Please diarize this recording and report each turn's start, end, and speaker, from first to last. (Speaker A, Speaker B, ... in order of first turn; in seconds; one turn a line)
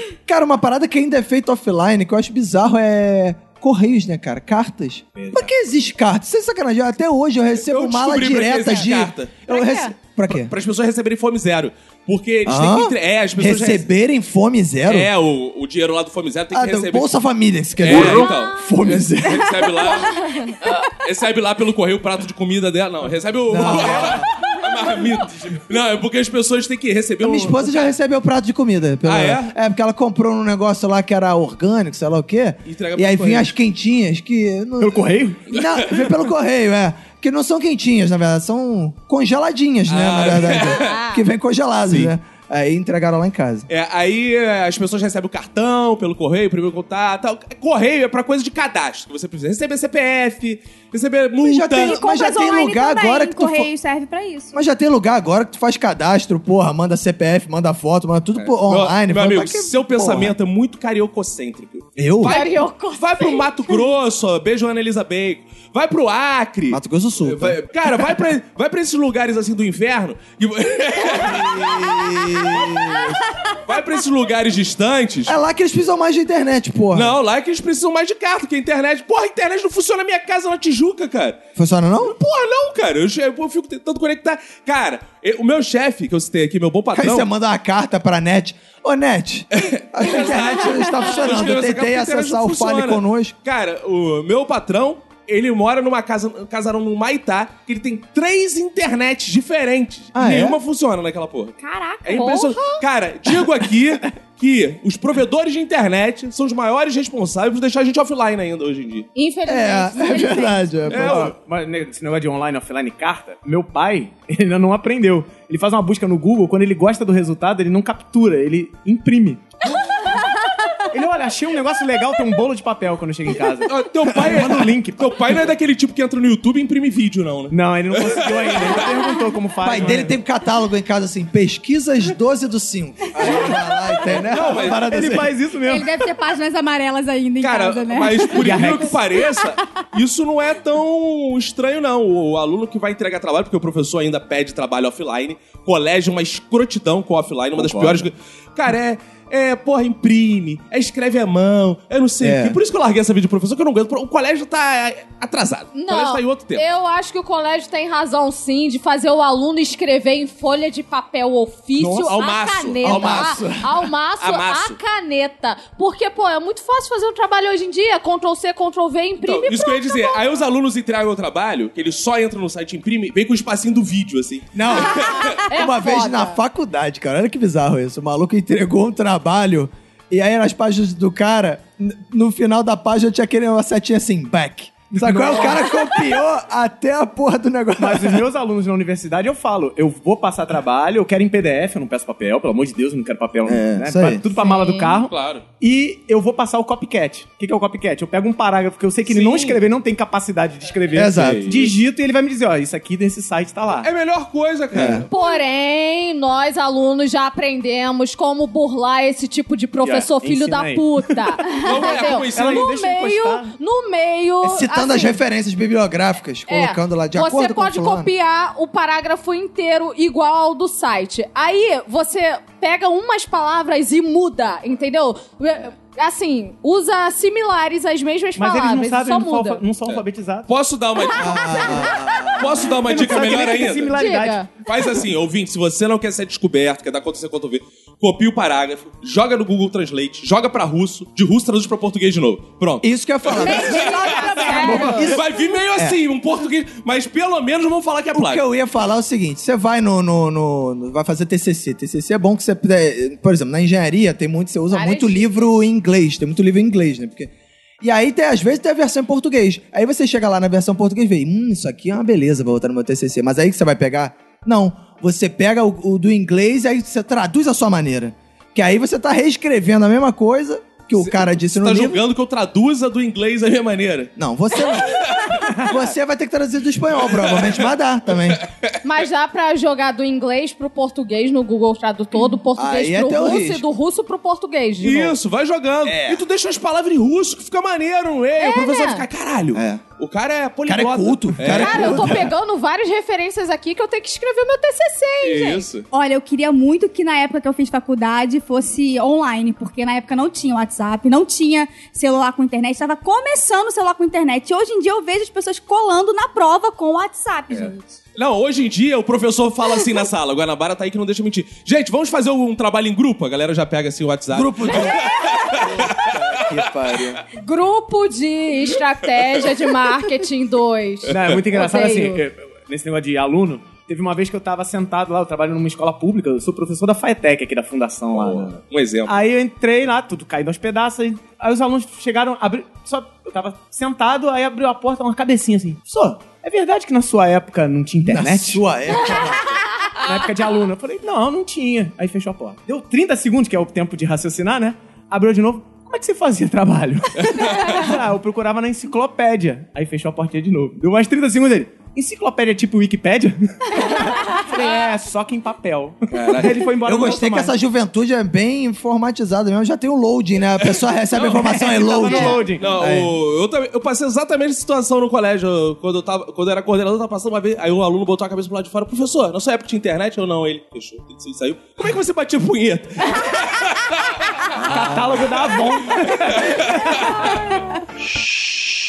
Speaker A: 0.3-10.5
Speaker B: 5.2-5.5
Speaker C: 7.6-9.4
Speaker D: 9.5-9.9
Speaker C: 10.3-13.9
Speaker A: 12.4-15.1
Speaker C: 14.9-17.1
Speaker A: 16.5-19.7
Speaker C: 17.8-27.9
Speaker D: 17.9-18.9
Speaker D: 19.7-20.6
Speaker A: 23.5-24.3
Speaker A: 27.2-43.7
Speaker C: 29.0-29.5
Speaker C: 32.7-33.5
Speaker B: 34.8-35.5
Speaker C: 35.5-36.1
Speaker C: 39.9-41.0
Speaker D: 40.6-41.2
Speaker C: 43.7-52.0
Speaker A: 51.4-53.7
Speaker E: 51.8-54.5
Speaker A: 54.5-60.4
Speaker C: 58.4-75.4
Speaker A: 62.0-62.4
Speaker D: 62.2-63.5
Speaker A: 66.7-67.6
Speaker A: 71.0-73.2
Speaker A: 75.3-77.2
Speaker C: 76.9-81.4
Speaker A: 81.6-82.2
Speaker C: 82.0-87.3
Speaker A: 86.9-93.3
Speaker C: 89.5-109.1
Speaker A: 100.1-100.6
Speaker D: 101.7-102.8
Speaker D: 109.2-110.7
Speaker A: 109.5-111.3
Speaker C: 110.9-111.3
Speaker B: 110.9-119.5
Speaker B: 120.9-125.5
Speaker C: 123.7-128.9
Speaker B: 127.5-130.2
Speaker A: 129.6-135.4
Speaker C: 134.1-134.8
Speaker B: 134.6-135.9
Speaker E: 135.6-138.6
Speaker C: 137.4-156.6
Speaker B: 138.3-139.0
Speaker E: 139.3-139.5
Speaker B: 147.6-148.1
Speaker A: 152.2-152.6
Speaker D: 155.7-170.2
Speaker C: 161.8-163.4
Speaker A: 162.8-163.7
Speaker C: 164.2-164.8
Speaker C: 169.2-175.4
Speaker A: 174.5-188.2
Speaker D: 174.7-176.4
Speaker B: 184.9-185.7
Speaker B: 187.8-203.9
Speaker A: 193.5-194.2
Speaker D: 194.4-194.9
Speaker C: 195.1-195.4
Speaker C: 199.1-199.6
Speaker A: 200.9-201.5
Speaker C: 201.1-201.8
Speaker C: 203.8-205.3
Speaker A: 204.7-205.1
Speaker D: 205.1-215.2
Speaker B: 209.8-211.7
Speaker C: 211.6-212.7
Speaker B: 212.3-213.5
Speaker A: 214.4-218.1
Speaker D: 216.5-229.6
Speaker B: 228.4-230.5
Speaker C: 229.9-234.0
Speaker D: 231.0-232.4
Speaker A: 231.1-232.8
Speaker B: 232.8-234.4
Speaker D: 233.9-234.5
Speaker C: 234.7-248.4
Speaker A: 242.8-246.0
Speaker E: 243.4-244.8
Speaker D: 243.4-245.1
Speaker A: 248.1-272.0
Speaker D: 254.7-255.5
Speaker C: 270.9-274.1
Speaker A: 274.2-278.4
Speaker C: 274.7-275.6
Speaker C: 277.1-277.6
Speaker C: 278.3-278.7
Speaker D: 278.8-285.2
Speaker A: 282.6-283.6
Speaker C: 284.8-292.2
Speaker A: 285.9-286.2
Speaker D: 288.4-289.0
Speaker A: 289.5-289.8
Speaker A: 290.7-292.3
Speaker D: 291.5-295.7
Speaker C: 295.2-295.9
Speaker E: 295.9-307.9
Speaker C: 307.5-316.6
Speaker A: 314.3-317.2
Speaker D: 317.4-322.2
Speaker B: 321.1-338.6
Speaker C: 328.1-329.2
Speaker A: 338.1-339.4
Speaker B: 340.0-357.6
Speaker C: 347.4-347.6
Speaker D: 354.5-354.8
Speaker C: 356.1-356.6
Speaker A: 356.9-363.2
Speaker B: 361.1-362.7
Speaker C: 362.6-374.9
Speaker B: 374.6-376.7
Speaker C: 376.1-377.4